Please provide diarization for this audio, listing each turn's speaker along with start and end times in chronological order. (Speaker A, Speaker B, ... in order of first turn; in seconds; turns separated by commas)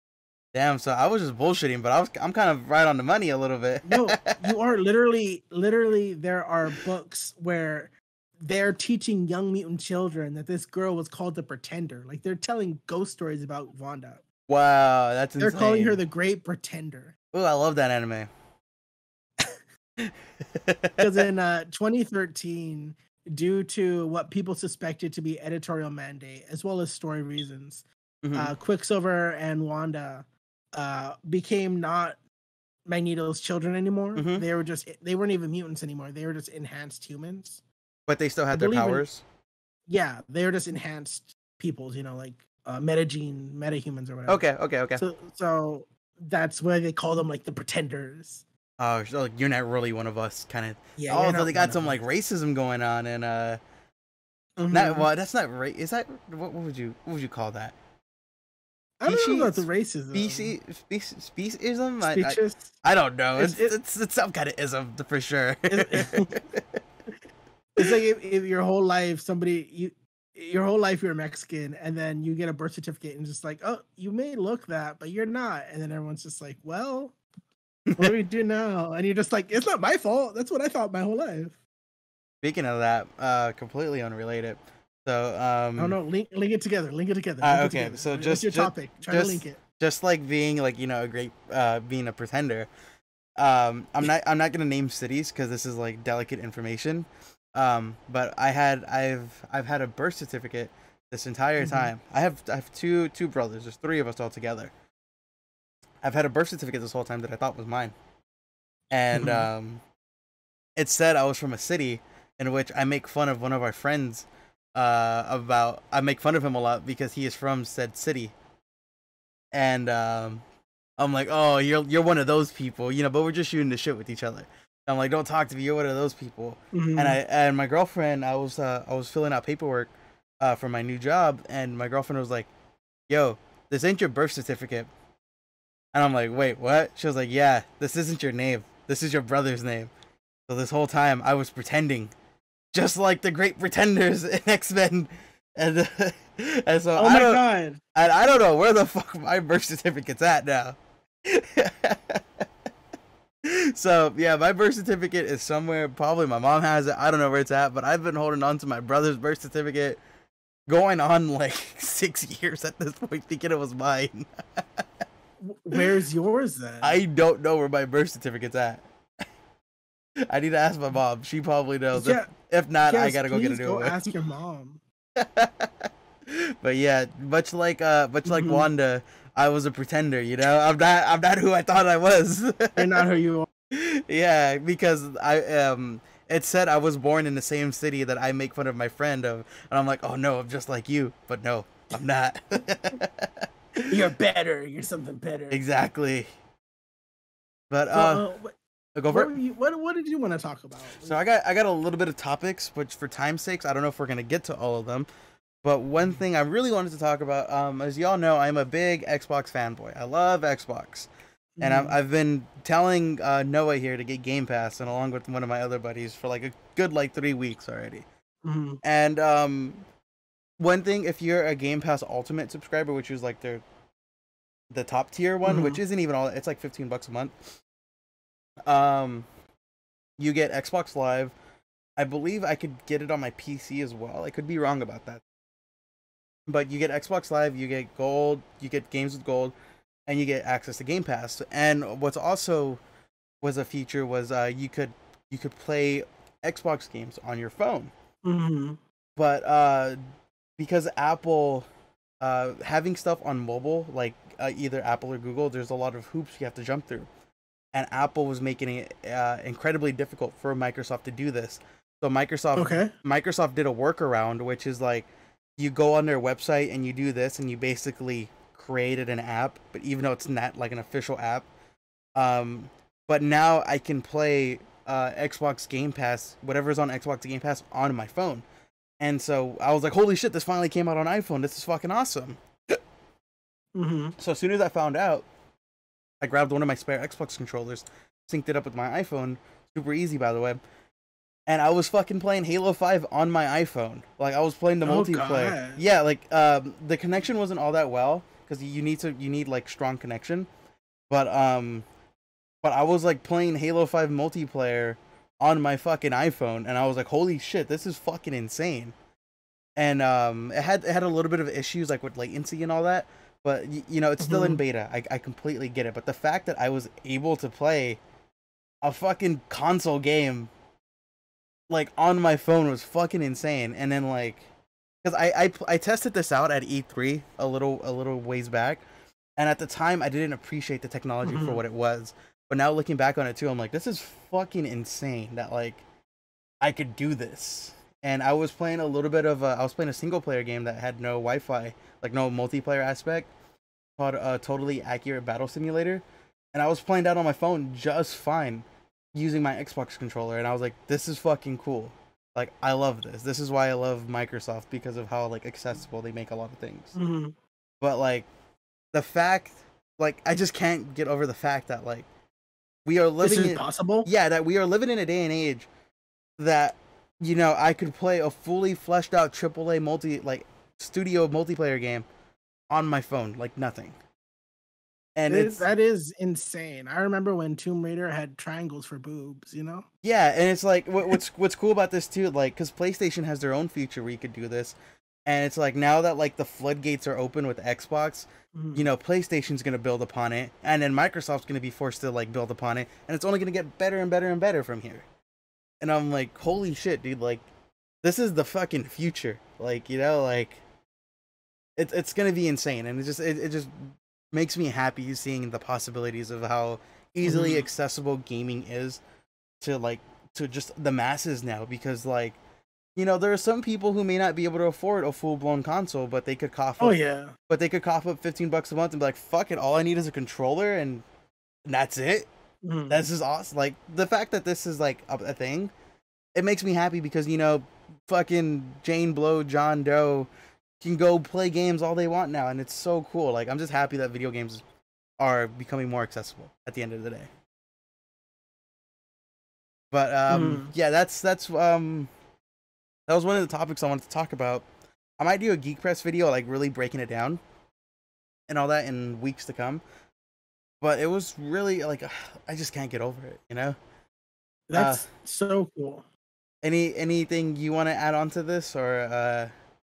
Speaker A: 0.5-4.5, Speaker B: 3.8-14.2, Speaker A: 14.5-16.0, Speaker B: 15.4-17.1, Speaker A: 17.3-18.3, Speaker A: 20.0-21.0, Speaker B: 21.0-32.2, Speaker A: 28.2-28.5, Speaker B: 32.9-37.6, Speaker A: 34.1-34.4, Speaker A: 38.1-39.2, Speaker B: 38.5-39.0, Speaker B: 39.9-44.4, Speaker A: 44.3-45.0, Speaker B: 45.0-48.4, Speaker A: 48.8-53.6, Speaker B: 51.0-52.0, Speaker B: 54.6-55.1, Speaker A: 54.7-57.7, Speaker B: 59.0-60.5, Speaker A: 59.0-66.8, Speaker B: 62.0-62.7, Speaker B: 63.4-63.7, Speaker B: 65.7-66.3, Speaker B: 67.8-77.2, Speaker B: 78.0-81.6, Speaker A: 82.4-86.0, Speaker B: 85.8-89.6, Speaker A: 87.4-92.7, Speaker A: 93.4-104.7, Speaker B: 101.6-101.9, Speaker A: 106.0-107.9, Speaker A: 108.9-109.8, Speaker B: 109.1-109.5, Speaker A: 110.8-118.3, Speaker A: 119.5-120.4, Speaker A: 121.0-132.5, Speaker B: 126.7-127.2, Speaker A: 133.1-134.9, Speaker A: 135.9-139.9, Speaker A: 140.5-142.1, Speaker A: 142.7-152.2, Speaker B: 146.9-147.8, Speaker A: 153.4-160.0, Speaker A: 160.7-164.8, Speaker B: 165.4-167.0, Speaker A: 166.8-168.8, Speaker A: 170.3-174.1, Speaker B: 171.9-172.3, Speaker B: 172.8-174.8, Speaker A: 175.2-183.1, Speaker B: 178.2-178.7, Speaker B: 182.8-183.5, Speaker A: 183.7-193.9, Speaker B: 193.9-195.6, Speaker A: 195.5-196.3, Speaker A: 197.7-198.2, Speaker B: 197.9-198.6, Speaker A: 198.9-199.3, Speaker B: 199.1-201.2, Speaker A: 201.0-205.1, Speaker A: 205.6-211.1, Speaker B: 211.6-212.0, Speaker A: 211.6-218.1, Speaker B: 218.4-218.8, Speaker A: 218.8-219.8, Speaker A: 220.6-223.6, Speaker A: 224.7-227.5, Speaker B: 225.4-225.8, Speaker A: 228.7-229.3, Speaker A: 230.2-231.3, Speaker A: 232.0-235.2, Speaker A: 236.5-239.5, Speaker A: 240.1-242.8, Speaker A: 243.4-247.9, Speaker B: 248.2-248.8, Speaker A: 249.2-250.0, Speaker A: 250.6-251.7, Speaker A: 252.2-257.1, Speaker A: 257.7-271.4, Speaker B: 262.6-262.9, Speaker A: 272.1-278.4, Speaker A: 279.0-282.8, Speaker B: 283.7-284.1, Speaker A: 284.2-285.2, Speaker A: 286.2-290.6, Speaker A: 291.5-300.5, Speaker B: 294.8-295.8, Speaker A: 301.1-301.8, Speaker A: 302.6-308.9, Speaker A: 309.8-318.0, Speaker B: 314.2-314.6, Speaker A: 318.8-320.5, Speaker A: 321.7-324.4, Speaker A: 325.0-328.8, Speaker A: 329.4-335.8, Speaker B: 331.2-331.6, Speaker A: 336.6-343.3, Speaker A: 344.0-346.0, Speaker A: 346.5-356.9, Speaker B: 356.9-357.3, Speaker A: 357.8-358.3, Speaker A: 358.9-362.1, Speaker A: 362.9-365.7, Speaker B: 363.2-364.1, Speaker A: 366.4-372.1, Speaker A: 372.7-373.9, Speaker A: 375.1-375.6, Speaker B: 375.3-379.9, Speaker A: 380.0-384.8, Speaker A: 385.3-395.0, Speaker B: 388.5-388.8, Speaker A: 395.8-397.4, Speaker A: 398.0-400.6, Speaker A: 401.8-409.0, Speaker B: 407.2-407.6, Speaker A: 409.6-412.4, Speaker A: 412.9-421.0, Speaker B: 416.8-417.3, Speaker A: 421.6-422.3, Speaker B: 422.6-423.0, Speaker A: 422.9-425.7, Speaker A: 426.3-430.3, Speaker A: 430.8-434.6, Speaker A: 435.2-437.3, Speaker A: 439.9-442.1, Speaker B: 440.3-440.7, Speaker A: 443.1-444.6, Speaker A: 445.2-447.4, Speaker A: 448.5-449.8, Speaker A: 450.8-453.8, Speaker B: 454.7-456.0, Speaker A: 454.7-455.1, Speaker A: 456.6-459.5